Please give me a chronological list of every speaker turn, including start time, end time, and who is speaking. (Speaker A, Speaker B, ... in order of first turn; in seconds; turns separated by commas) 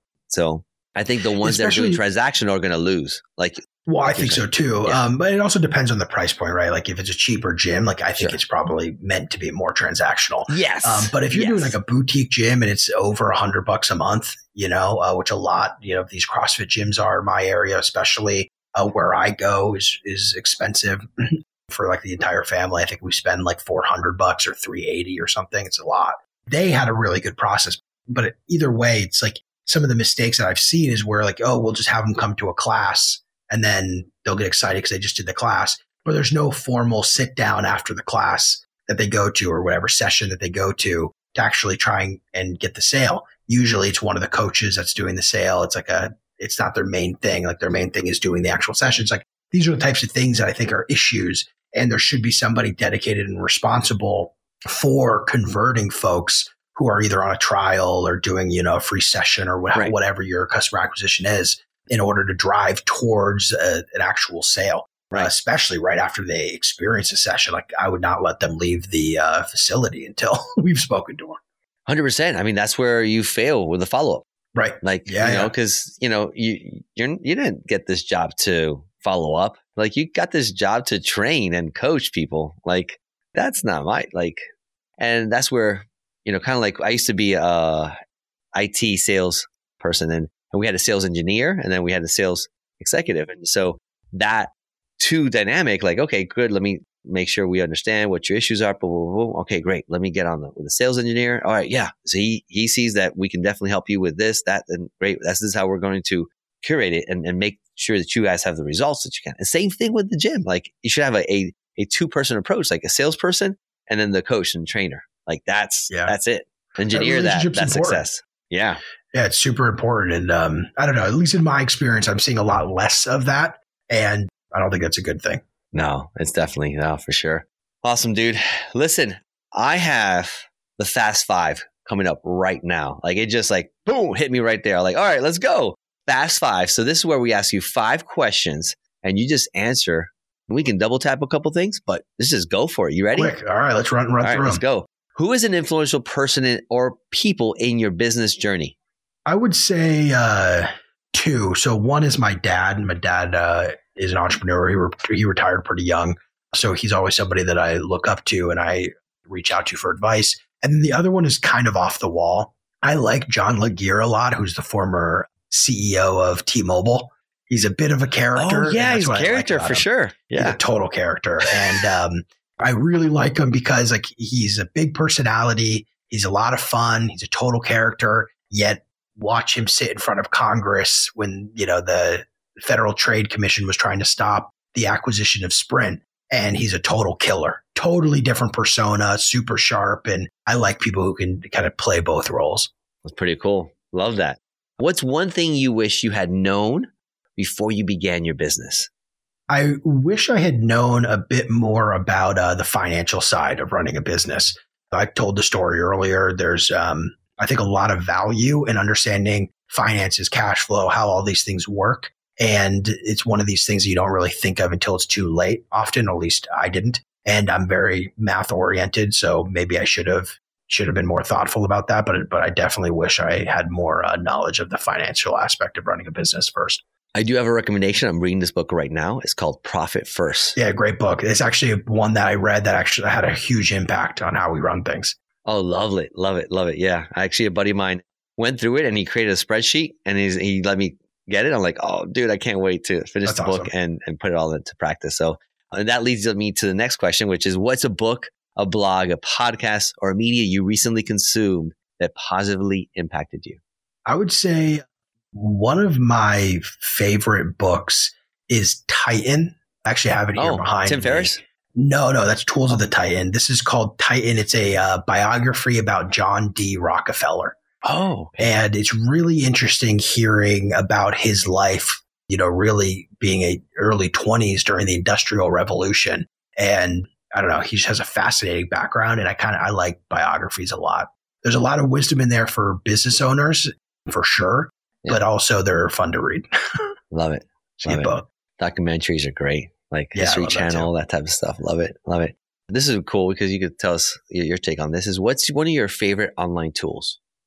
Speaker A: 0.3-5.0, Speaker B: 1.4-2.0, Speaker B: 3.9-71.4, Speaker A: 10.5-11.8, Speaker A: 71.9-74.3, Speaker B: 74.5-75.5, Speaker A: 74.8-84.4, Speaker A: 85.0-87.9, Speaker A: 88.5-118.8, Speaker B: 116.9-118.0, Speaker B: 119.1-125.4, Speaker A: 125.7-143.4, Speaker B: 143.2-144.6, Speaker A: 144.2-148.8, Speaker B: 149.3-192.7, Speaker A: 168.3-170.6, Speaker A: 193.1-198.9, Speaker B: 199.5-226.8, Speaker A: 227.2-230.6, Speaker B: 230.6-235.2, Speaker A: 235.4-253.6, Speaker B: 243.2-243.7, Speaker B: 254.1-267.6, Speaker A: 260.4-261.4, Speaker A: 267.8-268.5, Speaker B: 268.4-286.9, Speaker A: 287.1-297.2, Speaker B: 287.8-288.2, Speaker B: 290.1-290.9